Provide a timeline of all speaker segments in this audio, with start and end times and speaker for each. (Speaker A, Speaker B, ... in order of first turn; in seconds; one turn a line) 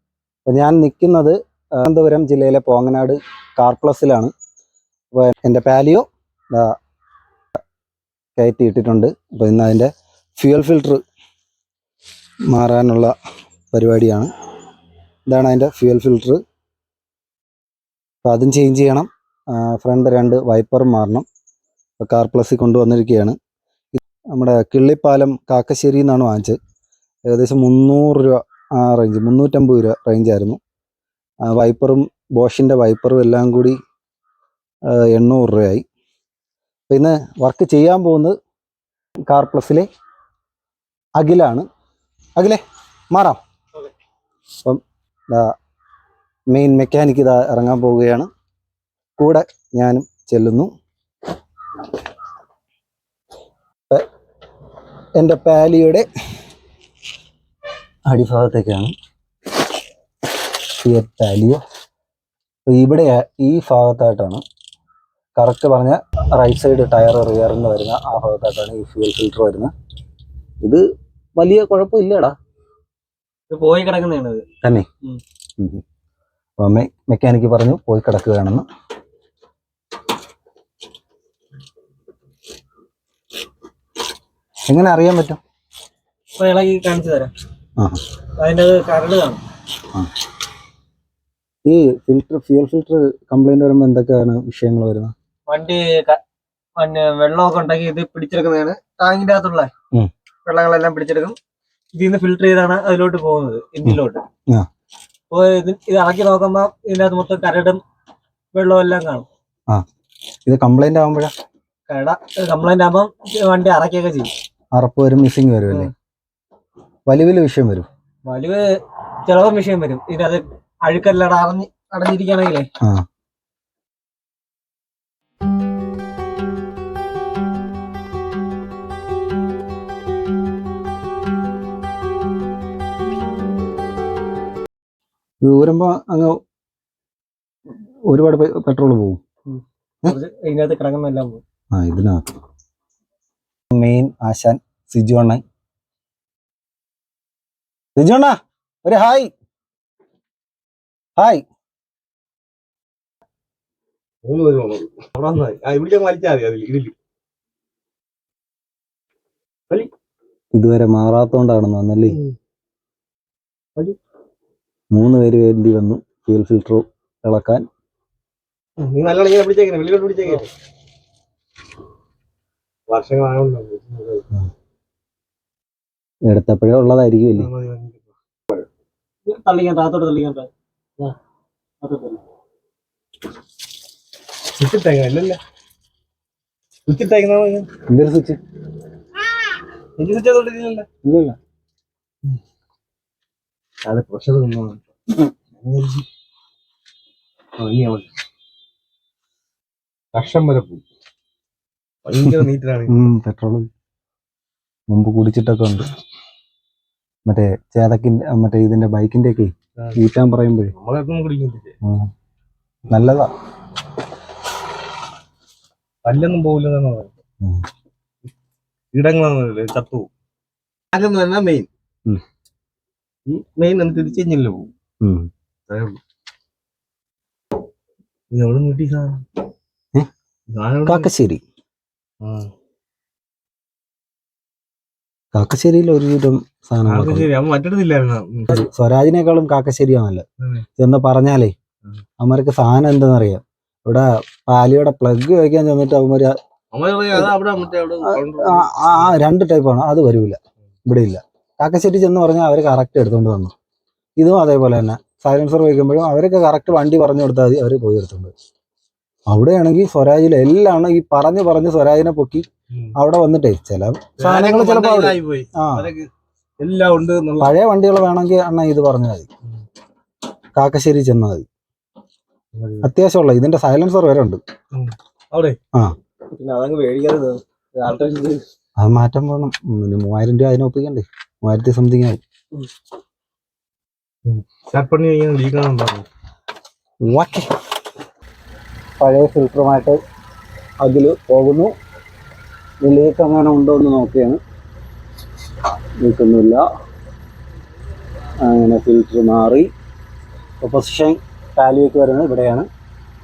Speaker A: 0.5-4.3
Speaker A: 5.1-6.7
Speaker A: 8.4-11.0
Speaker A: 12.5-13.1
Speaker A: 13.7-14.3
Speaker A: 15.3-16.4
Speaker A: 18.2-21.2
Speaker A: 22.0-23.4
Speaker A: 23.9-26.6
Speaker A: 27.3-30.6
Speaker A: 31.4-33.8
Speaker A: 34.9-35.8
Speaker A: 36.9-38.3
Speaker A: 39.3-39.9
Speaker A: 41.2-41.6
Speaker A: 42.4-43.4
Speaker A: 44.6-45.5
Speaker A: 46.5-48.3
Speaker A: 49.2-50.7
Speaker A: 55.2-56.0
Speaker A: 58.1-58.9
Speaker A: 60.8-61.6
Speaker A: 62.7-64.4
Speaker A: 65.3-69.7
Speaker A: 71.4-72.3
Speaker B: 73.5-74.4
Speaker A: 76.6-78.6
Speaker A: 84.7-85.4
Speaker B: 86.4-87.3
Speaker B: 88.4-89.4
Speaker A: 91.7-95.1
Speaker B: 95.5-96.2
Speaker B: 96.8-99.7
Speaker B: 100.4-101.3
Speaker B: 101.9-104.2
Speaker A: 103.8-104.7
Speaker B: 105.3-107.8
Speaker B: 108.5-109.2
Speaker A: 110.5-111.3
Speaker B: 111.9-114.3
Speaker A: 114.7-115.9
Speaker A: 117.1-117.8
Speaker B: 118.2-118.7
Speaker B: 119.2-122.7
Speaker A: 135.4-136.4
Speaker A: 138.1-139.2
Speaker B: 139.5-141.4
Speaker A: 141.7-142.3
Speaker A: 143.7-145.4
Speaker A: 147.9-149.3
Speaker A: 151.2-151.4
Speaker C: 154.2-156.9
Speaker A: 160.5-162.2
Speaker C: 162.1-162.3
Speaker A: 164.9-167.6
Speaker C: 168.8-170.5
Speaker C: 172.9-174.2
Speaker A: 176.3-177.5
Speaker C: 177.3-178.1
Speaker B: 179.2-180.5
Speaker B: 181.8-182.2
Speaker C: 184.6-185.4
Speaker C: 186.8-187.7
Speaker A: 187.9-188.4
Speaker C: 190.0-190.9
Speaker A: 191.0-191.3
Speaker C: 193.8-194.8
Speaker C: 195.6-196.1
Speaker C: 197.6-198.1
Speaker C: 200.1-200.8
Speaker C: 202.0-203.1
Speaker A: 202.9-203.7
Speaker A: 204.9-205.9
Speaker A: 207.2-210.7
Speaker C: 210.7-211.7
Speaker A: 211.8-212.1
Speaker A: 212.9-213.3
Speaker C: 216.0-217.1
Speaker C: 218.9-220.1
Speaker C: 220.9-221.7
Speaker C: 223.3-224.7
Speaker A: 225.0-225.3
Speaker C: 225.7-226.0
Speaker C: 228.3-229.2
Speaker C: 230.5-231.1
Speaker A: 230.8-231.4
Speaker C: 232.2-232.5
Speaker A: 235.3-237.3
Speaker C: 236.9-238.5
Speaker A: 238.5-240.2
Speaker C: 240.4-240.7
Speaker A: 240.8-241.5
Speaker A: 242.2-246.3
Speaker C: 246.7-249.1
Speaker A: 248.0-253.5
Speaker A: 254.2-258.3
Speaker A: 259.3-265.9
Speaker C: 264.2-266.1
Speaker C: 266.6-267.5
Speaker A: 267.4-269.3
Speaker A: 270.6-271.5
Speaker C: 272.5-272.9
Speaker A: 272.8-274.4
Speaker C: 274.7-275.6
Speaker B: 276.3-278.4
Speaker A: 278.8-282.2
Speaker C: 284.2-286.1
Speaker A: 287.0-287.5
Speaker A: 289.0-290.0
Speaker A: 290.8-291.7
Speaker A: 292.8-294.4
Speaker A: 296.0-296.6
Speaker A: 298.4-299.7
Speaker A: 300.6-302.6